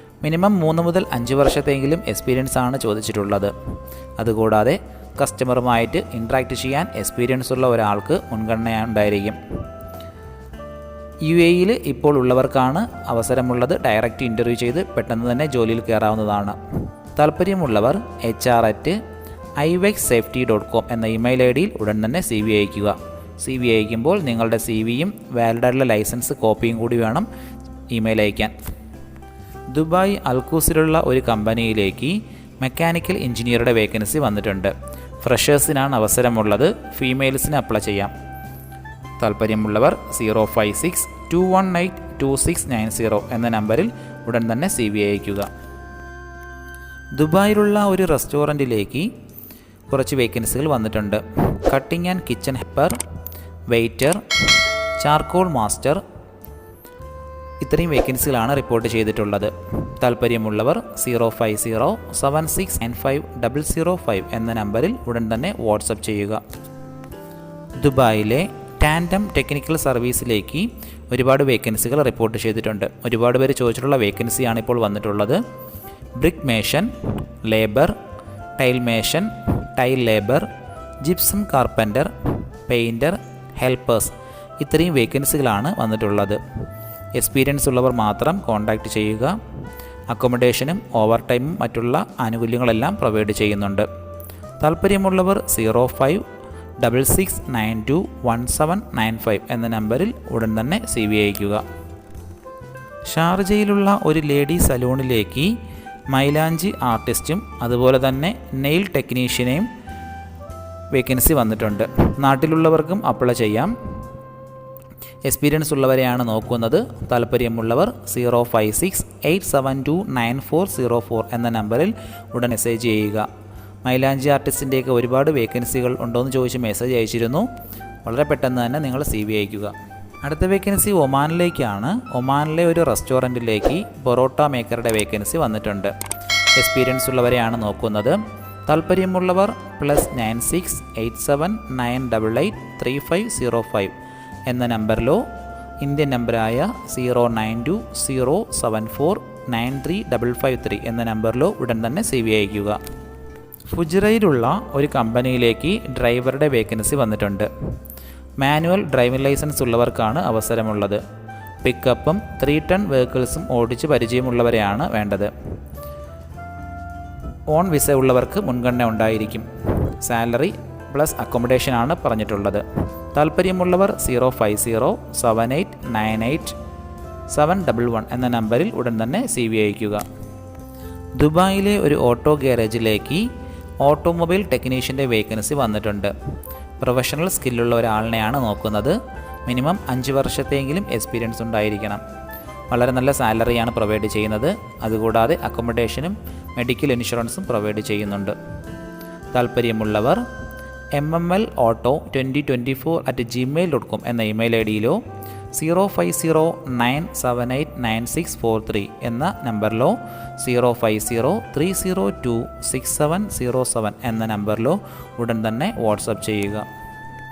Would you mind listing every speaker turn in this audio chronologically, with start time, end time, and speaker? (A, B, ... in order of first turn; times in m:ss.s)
0:00.2-0:03.5 A
0:04.2-0:09.4 A
0:11.2-0:16.6 A
0:17.2-0:19.0 A
0:19.6-0:27.3 A
0:27.9-0:28.5 A
0:29.7-0:38.1 A
0:39.2-0:45.5 A
0:47.2-0:49.1 A
0:49.9-0:52.9 A
0:53.7-0:56.0 A
0:57.6-1:06.4 A
1:07.8-1:15.4 A
1:16.2-1:16.9 A
1:17.4-1:17.9 A
1:18.6-1:20.5 A
1:21.0-1:22.1 A
1:22.7-1:26.4 A
1:27.2-1:29.4 A
1:30.1-1:33.9 A
1:34.6-1:36.2 A
1:36.8-1:41.6 A
1:43.1-1:45.5 A
1:46.1-1:49.7 A
1:50.9-1:53.7 A
1:55.3-2:03.3 A
2:03.8-2:07.5 A
2:08.0-2:15.9 A
2:16.6-2:23.9 A
2:24.5-2:25.2 A
2:25.8-2:32.8 A
2:33.7-2:37.5 A
2:38.4-2:41.0 A
2:41.6-2:45.3 A
2:47.5-2:49.5 A
2:50.0-2:52.6 A
2:53.1-2:56.6 A
2:57.3-3:00.0 A
3:01.2-3:03.2 A
3:03.8-3:06.1 A
3:06.8-3:09.0 A
3:09.5-3:12.0 A
3:12.7-3:18.4 A
3:19.3-3:20.2 A
3:21.0-3:25.0 A
3:25.6-3:36.7 A